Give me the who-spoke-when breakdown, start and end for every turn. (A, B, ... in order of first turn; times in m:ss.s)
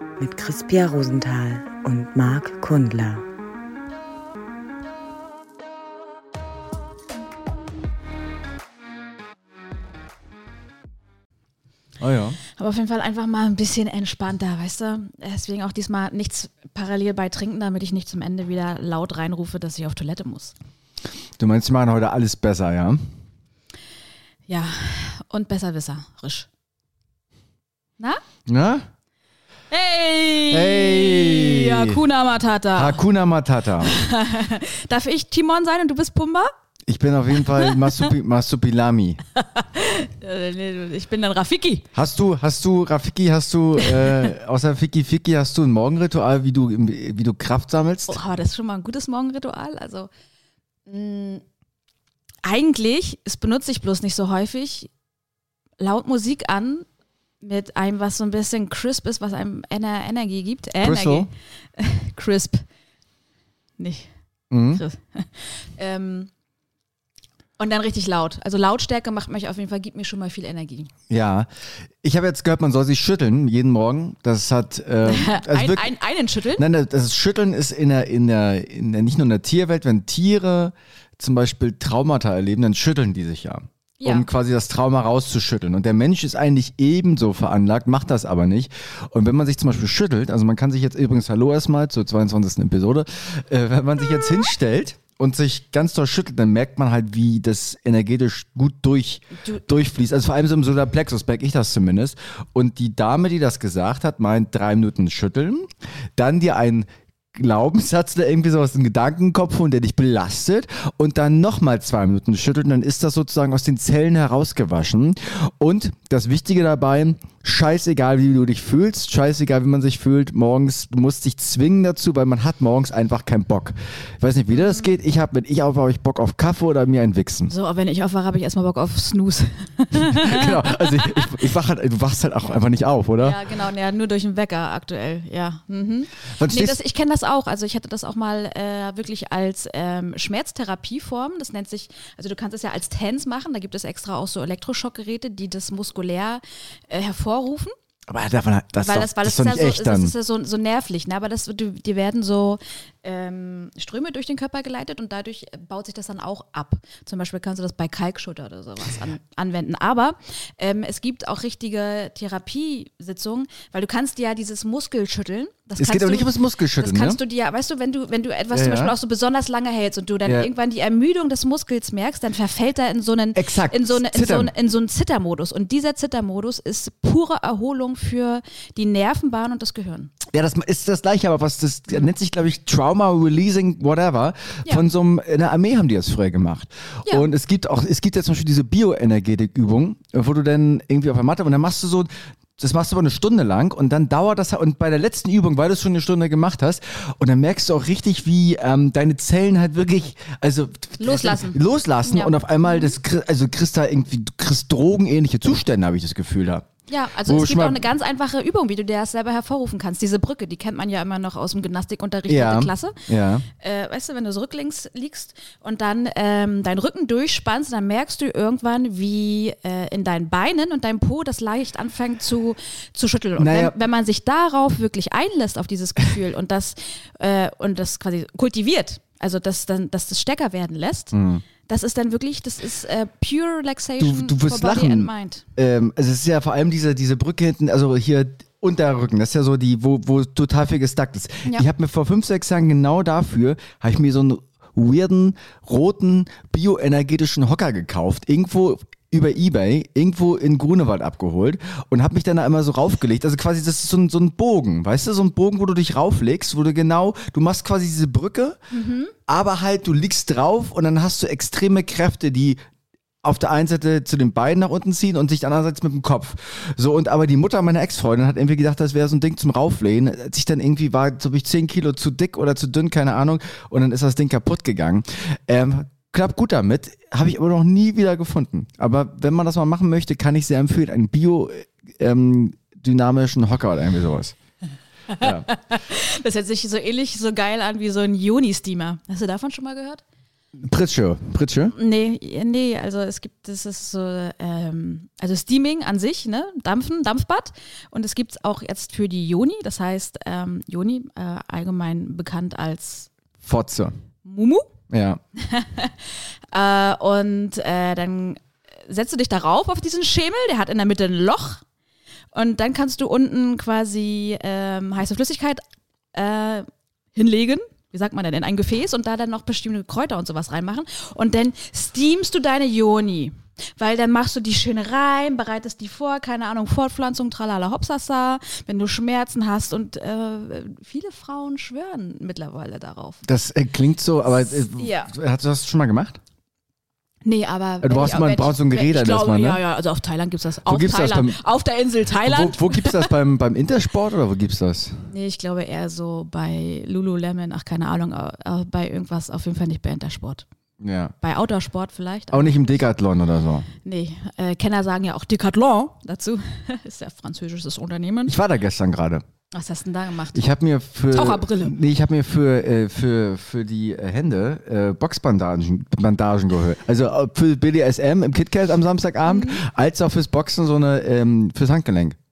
0:00.2-0:03.2 A
0:12.0-0:12.4 B
0:12.6-0:20.5 C
0:21.4-0:23.1 B
0:24.5-0:26.5 C
0:28.5-0:28.9 B
0:29.7-0:33.0 C
0:30.5-0:32.0 B
0:32.8-0:33.9 B
0:33.8-0:36.5 C
0:36.9-0:39.2 B
0:37.4-0:38.1 C
0:39.4-0:41.9 C
0:42.0-0:48.2 B
0:43.8-0:44.1 C
0:48.1-0:50.1 C
0:50.9-0:51.4 C
0:52.4-0:54.9 C
0:55.8-0:56.9 C
0:57.4-1:02.6 C
1:00.8-1:01.3 B
1:03.8-1:04.1 C
1:04.5-1:04.8 B
1:04.7-1:06.3 C
1:07.6-1:10.9 C
1:11.1-1:11.5 B
1:12.0-1:15.9 B
1:15.0-1:16.6 C
1:16.6-2:07.5 B
1:24.0-1:24.3 C
2:04.6-2:04.9 C
2:07.5-2:11.4 C
2:10.0-2:13.4 B
2:13.2-2:27.7 C
2:16.4-2:16.8 B
2:28.1-2:30.1 B
2:28.8-3:00.1 C
2:45.8-2:47.2 B
2:48.5-2:48.9 B
2:53.4-2:54.5 B
3:00.3-3:26.7 B
3:21.0-3:22.9 C
3:26.9-3:33.0 C
3:27.2-3:27.8 B
3:32.3-3:33.5 B
3:33.5-3:51.1 C
3:43.4-3:43.8 B
3:51.1-3:51.4 B
3:51.7-3:55.4 C
3:54.0-4:18.6 B
4:18.7-4:19.2 C
4:19.3-4:22.6 B
4:23.2-4:44.4 B
4:45.1-4:50.0 C
4:45.2-4:45.5 B
4:50.6-4:51.7 B
4:51.8-5:03.1 C
5:03.4-5:04.0 B
5:04.2-5:04.7 C
5:04.9-5:05.2 B
5:05.4-5:11.6 C
5:12.3-5:15.6 C
5:16.1-5:33.2 C
5:33.2-5:36.2 B
5:34.4-5:35.1 C
5:37.2-5:43.1 C
5:37.8-5:39.6 B
5:40.7-5:41.4 B
5:42.2-5:45.1 B
5:45.1-5:50.5 C
5:50.8-5:51.1 B
5:51.2-5:52.7 C
5:52.3-5:53.7 B
5:53.8-5:58.4 C
5:58.3-5:59.2 B
5:59.5-6:00.5 C
6:00.3-6:12.2 B
6:01.1-6:01.8 C
6:09.2-6:09.6 C